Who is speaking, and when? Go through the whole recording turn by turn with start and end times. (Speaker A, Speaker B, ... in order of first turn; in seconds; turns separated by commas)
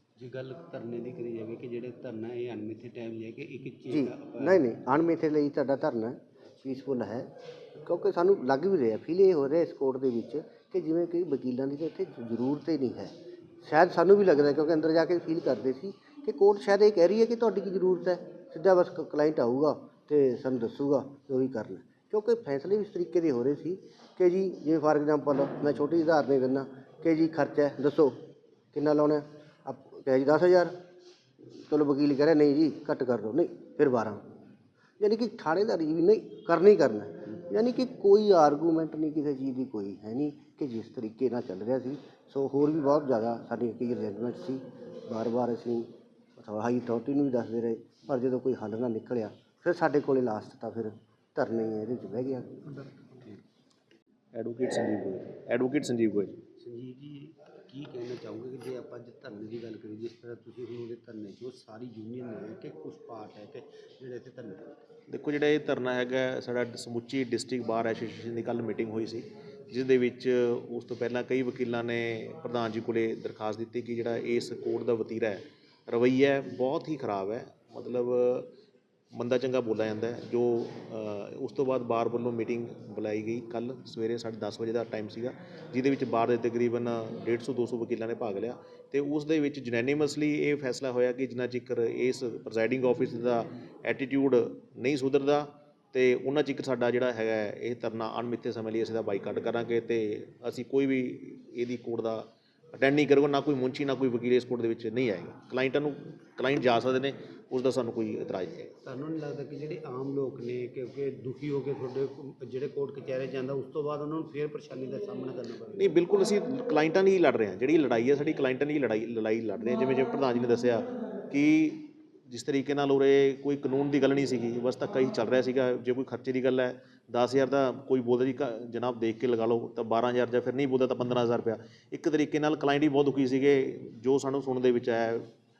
Speaker A: 0.2-4.7, Speaker B: 3.9-28.2, Speaker B: 28.7-30.8, Speaker B: 31.5-34.2, Speaker B: 35.0-52.9, Speaker C: 54.3-56.4, Speaker A: 56.6-64.7, Speaker C: 65.1-78.5, Speaker C: 79.1-108.7, Speaker A: 108.8-115.9, Speaker C: 115.7-135.3